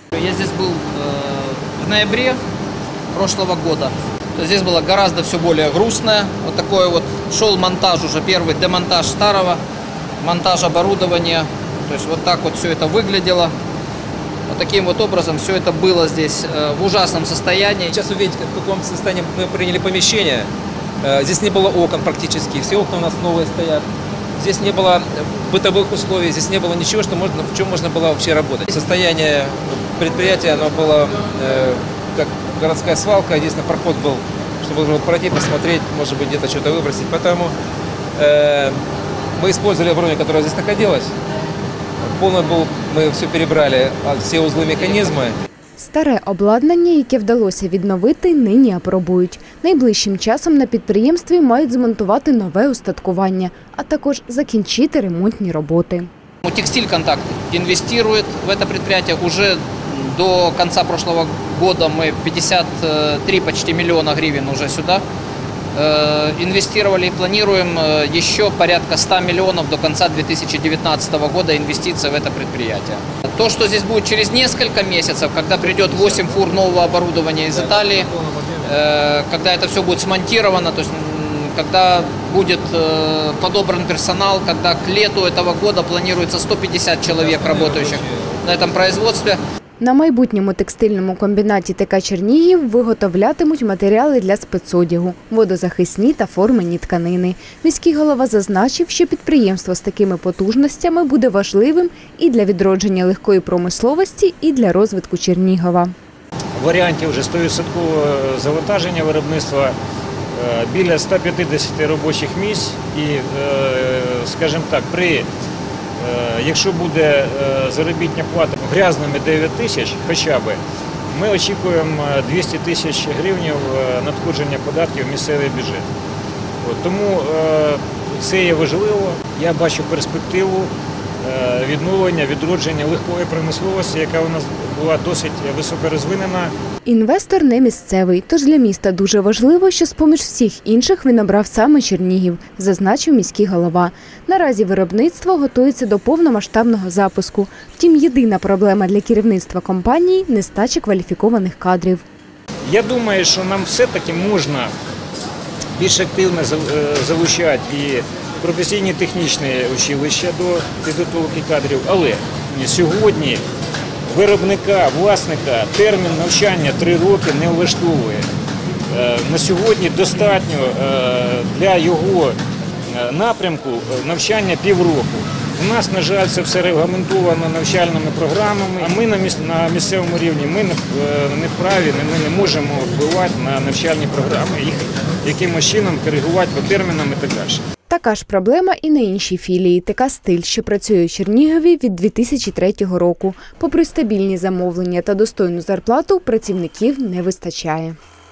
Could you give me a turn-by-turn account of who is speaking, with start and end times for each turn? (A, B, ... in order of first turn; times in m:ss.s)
0:00.1-0:02.4 A
0:03.1-0:09.6 A
0:10.2-0:13.5 A
0:14.5-0:17.9 A
0:17.9-0:20.5 B
0:21.0-0:23.8 B
0:24.4-0:37.5 B
0:38.2-0:38.8 B
0:39.4-0:41.1 B
0:42.0-0:45.4 B
0:45.8-0:56.1 C
0:56.4-1:05.0 A
1:05.8-1:18.1 A
1:15.7-1:16.5 B
1:17.5-1:18.7 B
1:18.6-1:29.4 A
1:27.1-1:28.4 B
1:29.8-1:45.9 C
1:46.6-1:49.8 D
1:50.3-1:55.3 D
1:56.0-2:00.6 D
2:01.1-2:05.9 D
2:06.6-2:16.5 D
2:16.9-2:32.0 C
2:32.7-2:34.7 D
2:35.8-2:43.4 D
2:44.1-2:48.3 D
2:48.9-2:52.4 D
2:52.9-3:07.6 D
3:07.9-3:18.0 C